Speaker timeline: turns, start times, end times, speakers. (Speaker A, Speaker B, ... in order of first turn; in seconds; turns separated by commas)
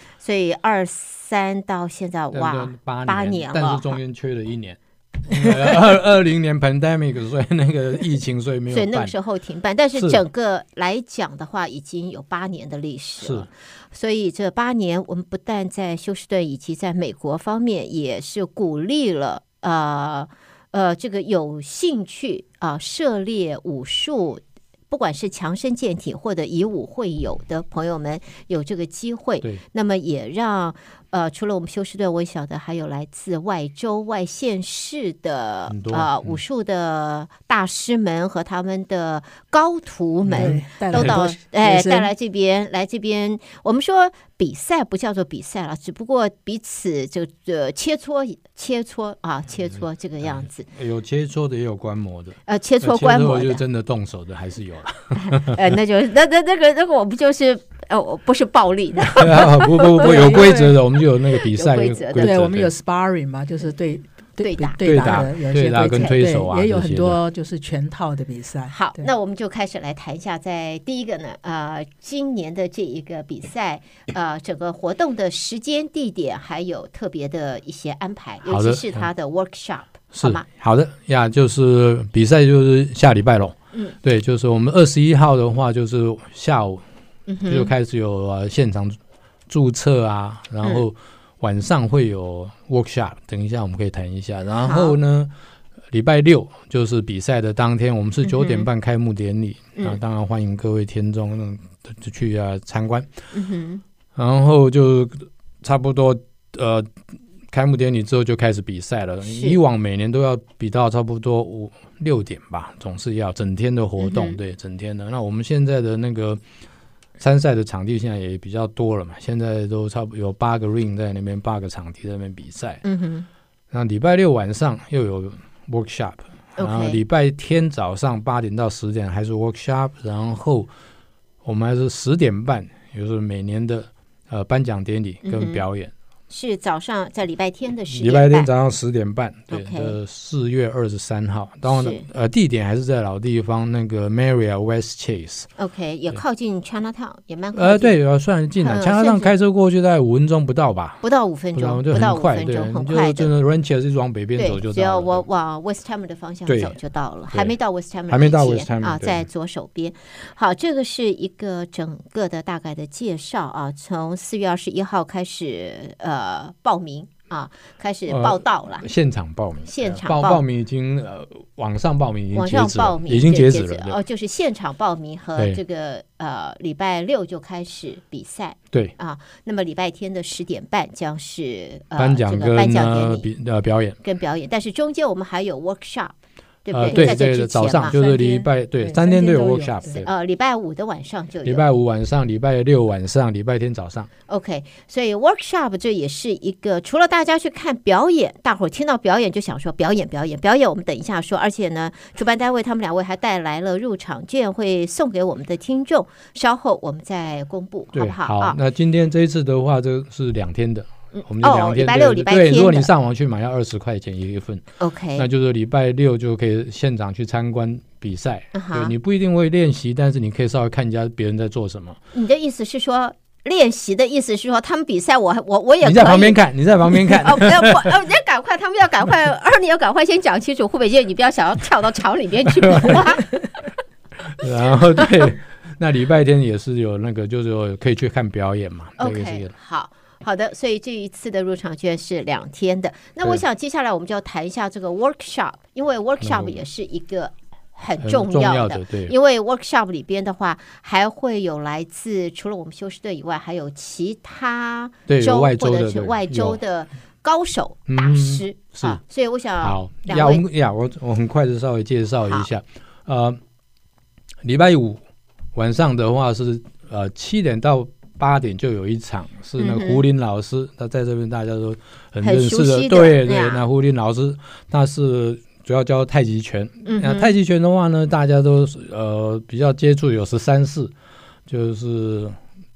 Speaker A: 0.2-4.0, Speaker B: 2.3-9.1, Speaker A: 8.7-50.7, Speaker B: 9.9-10.2, Speaker B: 13.2-13.5, Speaker B: 35.7-36.4, Speaker B: 40.3-41.2, Speaker C: 40.3-42.1, Speaker B: 50.7-55.6, Speaker A: 52.5-53.6, Speaker A: 55.2-60.6, Speaker B: 59.1-62.7, Speaker C: 60.0-60.8, Speaker A: 61.5-62.3, Speaker C: 62.2-69.1, Speaker A: 64.4-65.3, Speaker B: 64.8-67.2, Speaker A: 68.7-80.4, Speaker B: 78.4-79.0, Speaker B: 80.1-86.8, Speaker A: 87.3-87.7, Speaker B: 87.4-89.0, Speaker B: 89.5-95.3, Speaker A: 94.6-95.0, Speaker B: 95.9-103.1, Speaker A: 98.2-98.7, Speaker A: 103.3-103.8, Speaker B: 104.1-106.9, Speaker B: 107.5-116.4, Speaker A: 109.2-109.6, Speaker A: 114.0-114.4, Speaker B: 117.2-122.8, Speaker A: 122.8-123.3, Speaker B: 123.7-130.7, Speaker A: 126.6-127.0, Speaker B: 131.4-135.9, Speaker A: 135.2-135.6, Speaker A: 136.3-138.5, Speaker B: 137.9-145.5, Speaker A: 139.5-139.9, Speaker A: 141.7-142.1, Speaker A: 145.6-147.9, Speaker B: 147.5-151.0, Speaker A: 148.6-149.3, Speaker A: 151.0-153.3, Speaker B: 151.5-155.2, Speaker A: 154.4-168.9, Speaker B: 156.5-156.8, Speaker B: 158.1-159.2, Speaker B: 168.1-174.0, Speaker A: 169.7-170.4, Speaker A: 172.3-183.3, Speaker B: 182.0-184.0, Speaker A: 184.0-187.9, Speaker B: 186.7-190.1, Speaker C: 186.9-187.2, Speaker C: 187.8-190.0, Speaker A: 189.9-191.6, Speaker B: 191.4-194.1, Speaker A: 194.3-208.6, Speaker B: 207.9-214.6, Speaker A: 211.2-212.9, Speaker A: 214.8-215.3, Speaker B: 215.2-222.0, Speaker A: 218.5-218.9, Speaker A: 222.1-226.4, Speaker B: 225.8-227.9, Speaker A: 226.9-233.2, Speaker B: 232.4-233.4, Speaker B: 234.3-239.5, Speaker A: 235.0-235.2, Speaker A: 239.0-260.4, Speaker B: 246.2-246.6, Speaker B: 248.0-249.1, Speaker B: 255.1-256.6, Speaker B: 257.9-259.0, Speaker B: 259.6-263.4, Speaker B: 264.4-265.0, Speaker B: 265.5-280.9, Speaker A: 269.6-270.0, Speaker A: 272.2-273.6, Speaker A: 276.9-277.3, Speaker B: 281.5-282.4